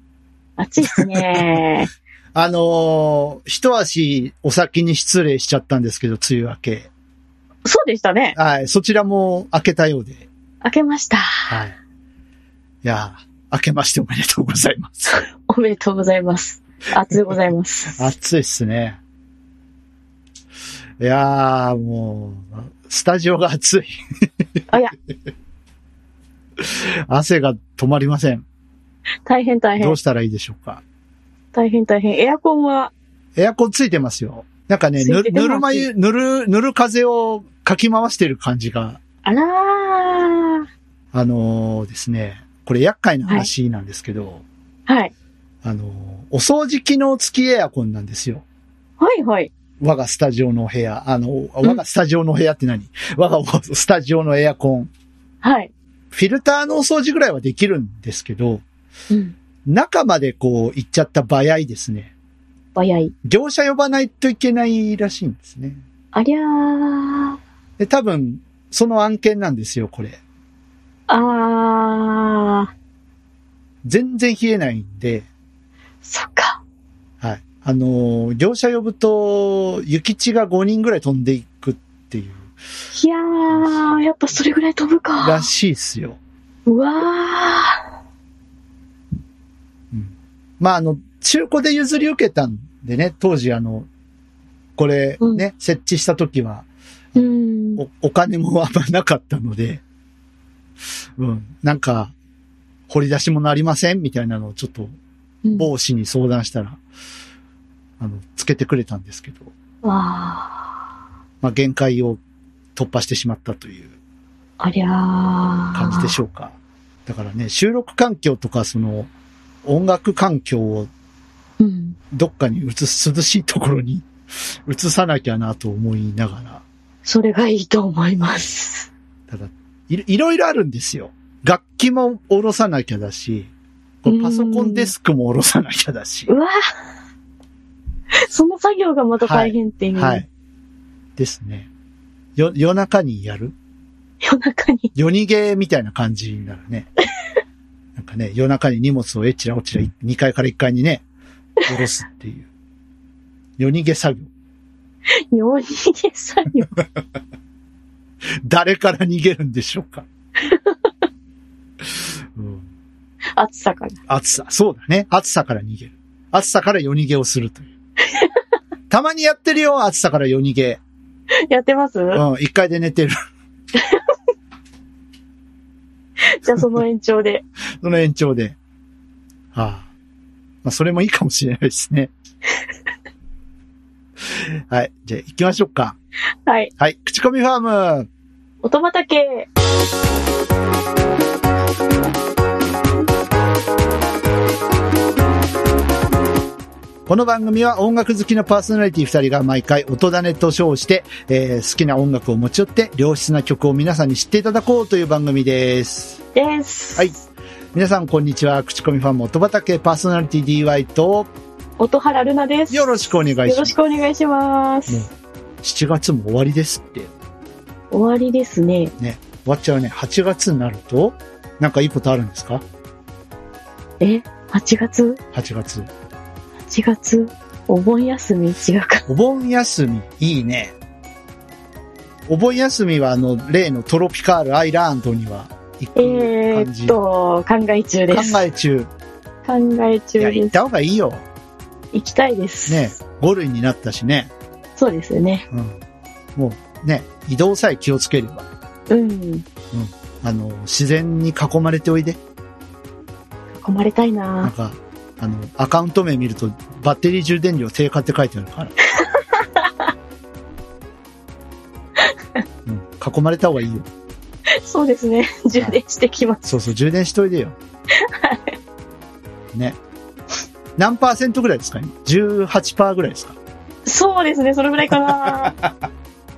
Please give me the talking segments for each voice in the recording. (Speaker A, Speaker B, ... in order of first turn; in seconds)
Speaker A: 0.6-1.9, 7.6-8.3, 10.6-11.5, 15.1-18.1, 24.7-24.9, 29.2-30.0, 31.5-32.9, 35.0-35.9, 39.2-40.6, 44.9-45.1, 49.0-49.5, 55.4-55.7, 62.7-63.1, 66.1-67.4, 71.1-72.7, 76.0-76.6, 82.9-85.5, 86.7-87.8, 97.2-97.8, 105.4-105.7, 109.8-110.7, 114.6-116.1, 121.6-122.0, 127.0-128.9, 134.1-134.9, 136.3-136.5, 138.2-140.2, 144.2-144.9, 155.3-156.7, 160.4-160.7, 163.3-164.0, 171.5-172.2, 173.7-174.0, 176.2-177.4, 186.4-186.7, 188.6-189.5, 206.3-207.1, 211.8-215.1, 217.9-218.9, 224.0-225.2, 226.7-229.0, 235.9-238.4, 239.4-240.6, 241.9-242.9, 244.8-245.4, 248.9-249.4, 253.5-254.5, 258.9-259.9, 264.6-266.5, 268.0-268.5, 273.9-275.6
Speaker B: 1.0-1.6, 2.3-6.9, 8.3-10.3, 11.5-11.8, 12.8-15.2, 17.9-19.0, 21.0-23.9, 26.6-28.4, 29.8-30.8, 33.4-39.0, 41.1-44.4, 45.6-48.4, 49.8-54.9, 56.1-58.6, 59.6-62.1, 63.2-65.8, 67.8-70.2, 73.8-75.3, 77.2-82.5, 83.5-84.0, 85.2-86.2, 89.9-93.9, 94.8-99.8, 101.2-102.1, 102.9-104.9, 105.5-106.8, 108.0-109.5, 111.4-112.2, 112.8-113.9, 115.7-119.1, 119.6-120.9, 122.1-124.1, 124.7-126.6, 129.3-133.5, 134.0-136.3, 139.2-140.3, 141.2-141.7, 142.3-143.5, 144.9-146.9, 147.9-151.0, 151.7-152.5, 153.6-154.3, 158.4-160.0, 162.0-162.6, 164.1-167.7, 168.9-170.8, 172.1-173.2, 177.8-178.6, 179.5-179.9, 180.6-182.1, 184.3-186.0, 186.8-188.1, 197.1-206.2, 207.7-211.3, 212.7-213.7, 215.6-217.1, 219.0-222.6, 225.3-225.9, 229.1-230.7, 232.3-237.0, 238.1-238.9, 240.2-241.2, 242.7-244.3, 246.3-248.4, 249.7-252.2, 254.4-258.7, 262.6-263.9, 266.4-267.6, 270.8-273.4, 275.2-275.7